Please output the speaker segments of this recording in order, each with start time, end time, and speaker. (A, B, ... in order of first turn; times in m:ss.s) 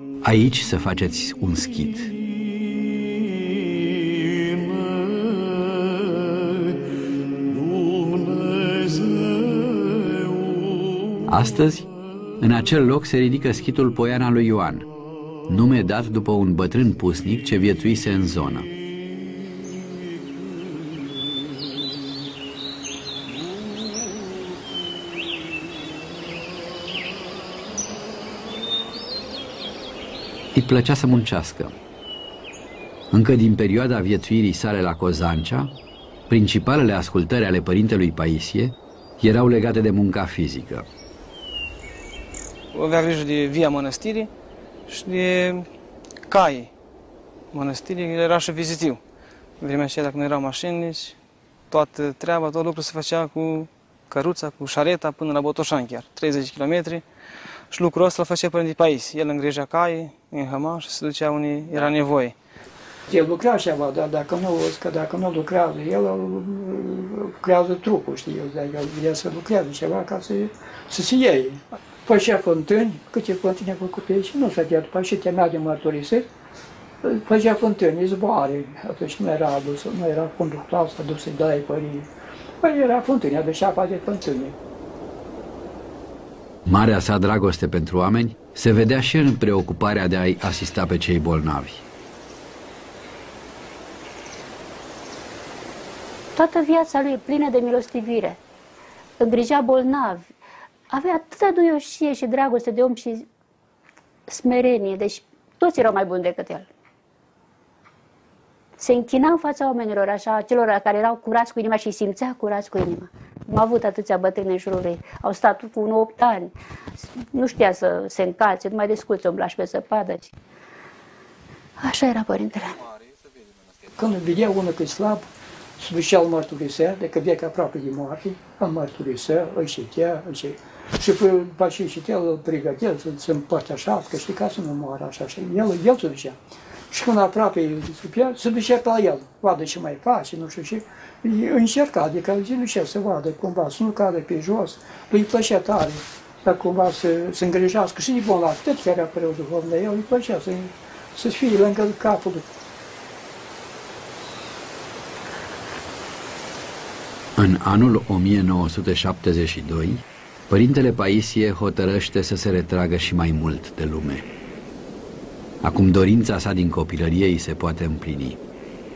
0:00.2-0:02.1 A
0:11.3-0:14.9 A
0:15.5-0:18.7 A
0:30.5-0:31.8 A
0:33.1-0:35.7 A
0:36.3-0:40.9 A
0:42.7-0:44.3 B
0:44.9-0:45.7 B
0:46.3-0:46.7 B
0:47.5-0:49.0 B
0:49.6-0:51.2 B
0:51.7-0:57.0 B
0:57.7-1:02.4 B
1:03.1-1:16.3 C
1:17.0-1:22.1 C
1:22.6-1:24.6 C
1:26.7-1:31.8 A
1:36.4-1:38.4 D
1:39.2-1:40.3 D
1:40.9-1:43.3 D
1:44.3-1:46.7 D
1:48.8-1:56.5 D
1:57.3-2:00.3 D
2:01.8-2:02.8 D
2:04.0-2:05.3 C
2:05.8-2:16.4 C
2:16.9-2:32.5 C
2:37.4-2:44.3 A
2:45.6-2:48.4 A